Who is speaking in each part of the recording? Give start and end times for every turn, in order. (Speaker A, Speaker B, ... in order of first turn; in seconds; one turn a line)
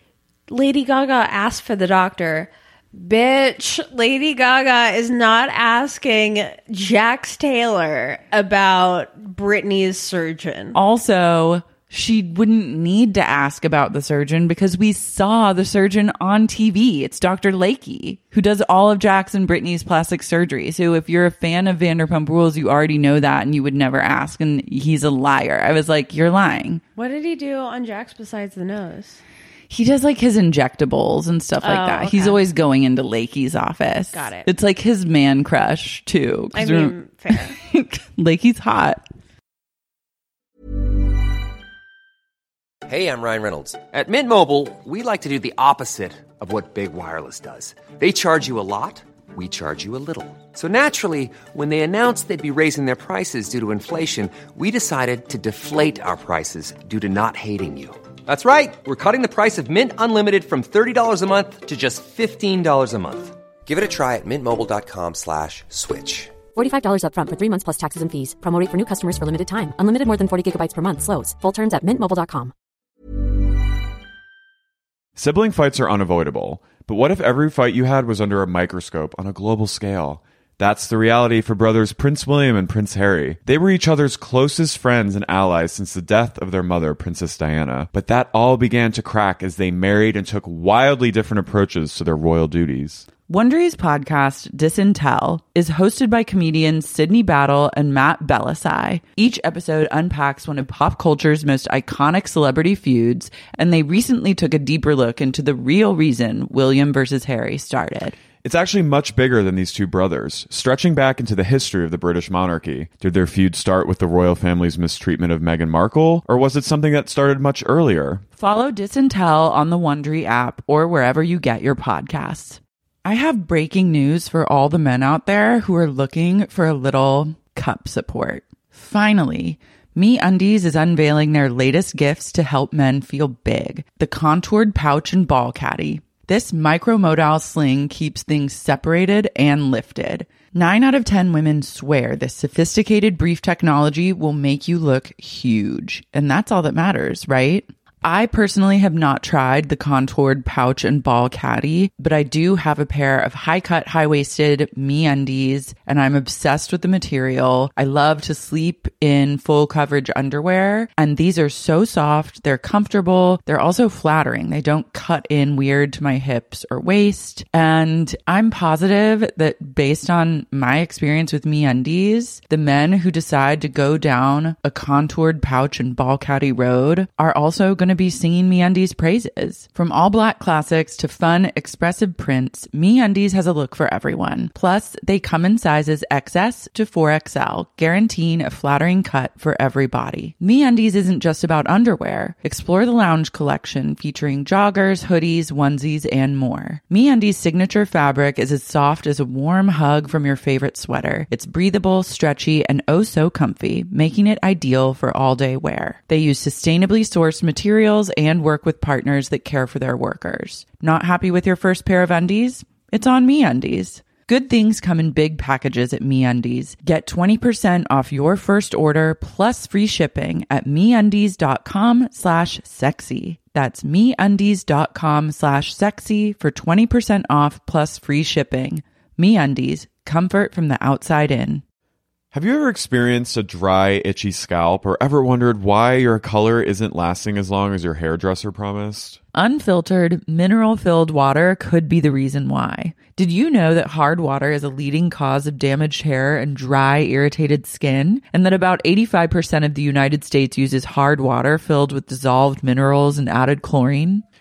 Speaker A: 0.5-10.8
Speaker B: 10.8-26.8
Speaker A: 27.0-29.2
Speaker B: 29.7-39.0
Speaker A: 31.6-32.4
Speaker A: 34.1-34.5
Speaker A: 36.5-37.6
Speaker C: 42.9-66.4
Speaker D: 66.5-72.5
Speaker E: 75.2-93.1
Speaker B: 93.3-108.2
Speaker E: 108.4-118.2
Speaker B: 118.4-231.6
Speaker E: 232.3-239.2
Speaker B: 239.3-254.2